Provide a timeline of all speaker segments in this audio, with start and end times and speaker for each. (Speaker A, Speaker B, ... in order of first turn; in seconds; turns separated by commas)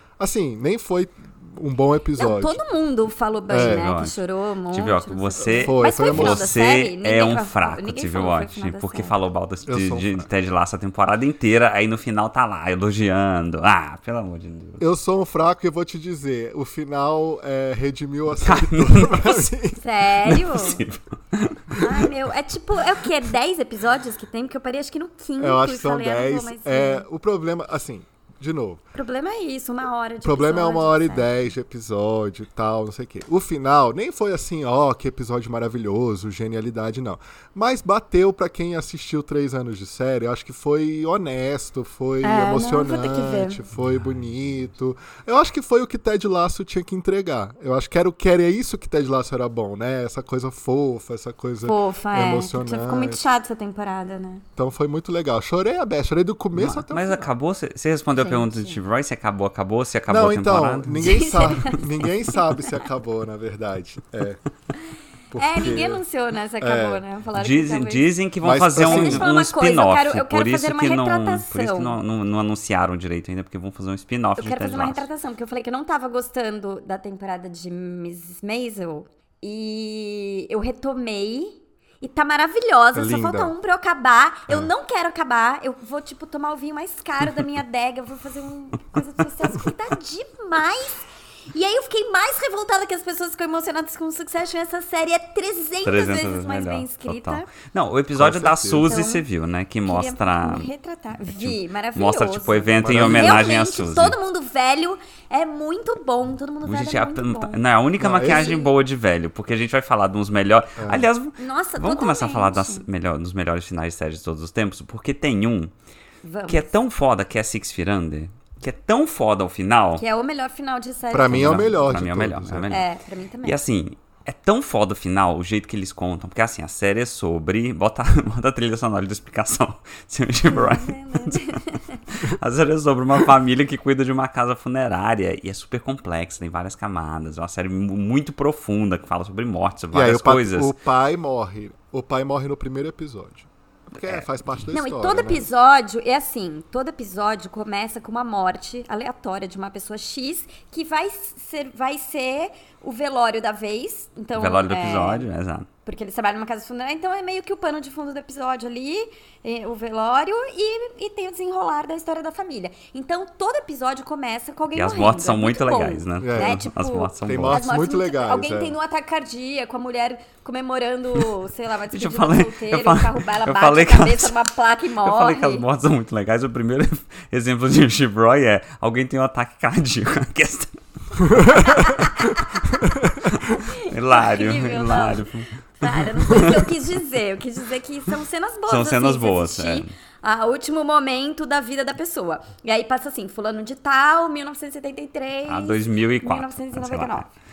Speaker A: 0.2-2.6, Speaker B: 2.2-9.2, Speaker A: 3.5-3.9, Speaker C: 3.5-14.8, Speaker A: 5.5-6.5, Speaker A: 9.7-10.3, Speaker A: 14.8-19.8, Speaker C: 18.4-19.6, Speaker B: 19.8-20.8, Speaker C: 20.2-21.8, Speaker B: 21.8-27.1, Speaker A: 25.4-28.8, Speaker B: 28.9-31.5, Speaker A: 30.2-53.2, Speaker B: 42.2-43.6, Speaker B: 51.6-54.4, Speaker A: 54.6-57.3, Speaker C: 56.5-61.4, Speaker B: 58.1-58.8, Speaker A: 60.1-64.4, Speaker B: 61.0-62.8, Speaker A: 65.3-66.0, Speaker B: 65.3-68.1, Speaker A: 66.6-67.0, Speaker C: 67.3-75.0, Speaker A: 68.4-69.3, Speaker B: 68.8-72.0, Speaker B: 74.4-97.5, Speaker A: 82.9-83.5, Speaker C: 95.8-100.7, Speaker A: 98.1-98.9, Speaker B: 98.9-99.2, Speaker B: 99.8-107.6, Speaker C: 101.2-104.1, Speaker A: 102.8-103.6, Speaker C: 106.6-115.7, Speaker A: 108.0-108.5, Speaker B: 108.1-108.7, Speaker A: 110.8-111.1, Speaker B: 111.4-112.8, Speaker B: 116.2-116.7, Speaker C: 116.5-120.0, Speaker B: 120.0-121.7, Speaker A: 121.1-122.8, Speaker C: 121.3-122.9, Speaker B: 122.7-123.6, Speaker C: 123.4-140.7, Speaker B: 130.4-132.1, Speaker A: 139.9-145.5, Speaker B: 144.7-155.2, Speaker C: 154.3-155.7, Speaker B: 155.8-175.7, Speaker C: 164.7-167.6, Speaker A: 166.2-166.6, Speaker A: 167.2-168.8, Speaker C: 171.9-174.4, Speaker C: 175.0-186.7, Speaker B: 181.5-182.6, Speaker B: 183.4-185.3, Speaker B: 185.8-197.3, Speaker C: 188.7-189.9, Speaker C: 195.5-197.3